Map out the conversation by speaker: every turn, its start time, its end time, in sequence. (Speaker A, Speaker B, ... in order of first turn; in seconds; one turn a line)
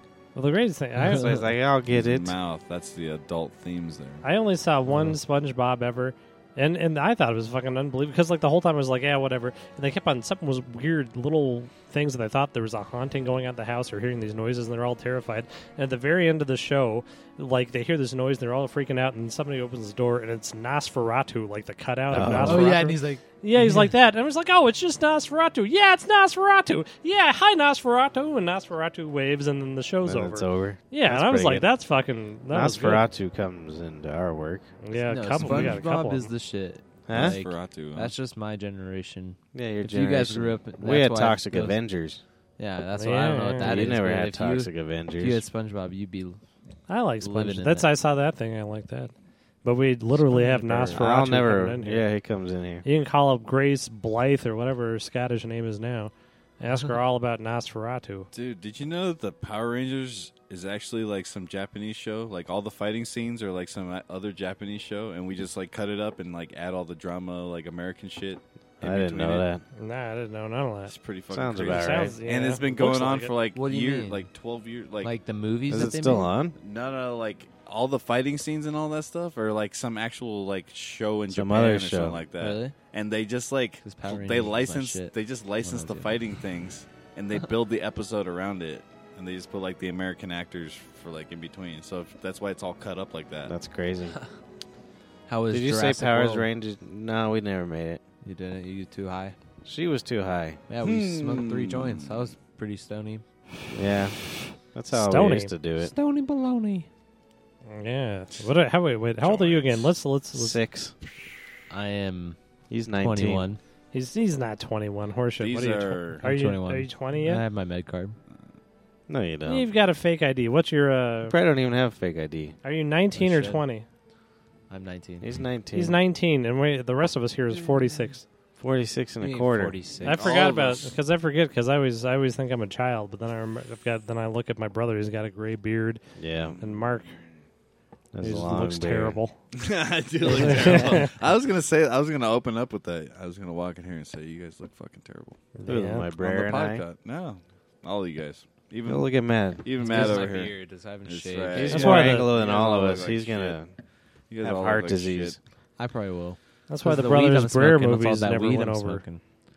Speaker A: 0.3-1.5
Speaker B: 1.0-2.4
Speaker C: 1.9-4.2
Speaker A: 4.2-33.0
Speaker B: 22.1-22.8
Speaker D: 22.1-23.9
Speaker B: 30.0-31.7
Speaker B: 32.5-34.7
Speaker A: 34.8-36.3
Speaker D: 35.1-41.8
Speaker C: 35.4-35.8
Speaker B: 37.1-37.4
Speaker C: 37.1-38.1
Speaker B: 39.5-42.2
Speaker D: 42.6-46.4
Speaker A: 43.0-43.8
Speaker B: 43.6-45.4
Speaker A: 46.9-49.1
Speaker D: 47.2-47.9
Speaker A: 49.6-52.0
Speaker D: 50.4-51.0
Speaker B: 50.7-52.9
Speaker A: 52.9-58.3
Speaker C: 58.3-69.5
Speaker B: 68.8-69.6
Speaker A: 69.8-70.9
Speaker C: 70.9-75.1
Speaker B: 71.3-72.2
Speaker A: 71.7-73.3
Speaker D: 73.5-74.2
Speaker D: 75.0-76.3
Speaker B: 75.7-76.6
Speaker C: 76.6-93.5
Speaker B: 81.3-82.2
Speaker D: 82.4-82.7
Speaker D: 83.8-86.2
Speaker B: 93.5-94.2
Speaker D: 95.3-96.5
Speaker B: 95.5-98.0
Speaker D: 98.2-99.4
Speaker B: 99.7-100.6
Speaker D: 100.7-103.2
Speaker C: 100.8-102.3
Speaker B: 103.7-104.2
Speaker B: 104.7-105.9
Speaker A: 104.9-105.5
Speaker D: 105.8-106.9
Speaker A: 107.7-110.6
Speaker C: 109.2-109.8
Speaker B: 110.3-111.0
Speaker D: 111.7-112.4
Speaker B: 112.7-113.5
Speaker D: 113.0-113.6
Speaker A: 113.9-117.4
Speaker C: 115.4-116.2
Speaker D: 116.2-118.2
Speaker B: 119.1-119.7
Speaker A: 119.5-121.4
Speaker B: 121.3-122.6
Speaker A: 122.6-123.8
Speaker D: 123.1-123.6
Speaker D: 124.7-125.3
Speaker B: 125.2-126.0
Speaker A: 125.8-128.2
Speaker B: 128.6-129.8
Speaker D: 129.2-130.3
Speaker A: 130.0-136.0
Speaker C: 130.0-130.9
Speaker B: 136.2-136.6
Speaker C: 136.4-136.7
Speaker A: 136.6-137.2
Speaker B: 138.1-139.2
Speaker A: 138.2-139.4
Speaker C: 139.6-145.4
Speaker A: 140.2-141.1
Speaker A: 145.6-146.1
Speaker B: 145.7-146.8
Speaker C: 146.2-153.6
Speaker B: 148.9-150.1
Speaker D: 149.8-152.2
Speaker B: 151.6-153.7
Speaker A: 151.7-152.3
Speaker C: 154.3-155.4
Speaker B: 154.4-155.4
Speaker D: 155.8-159.2
Speaker A: 156.7-159.1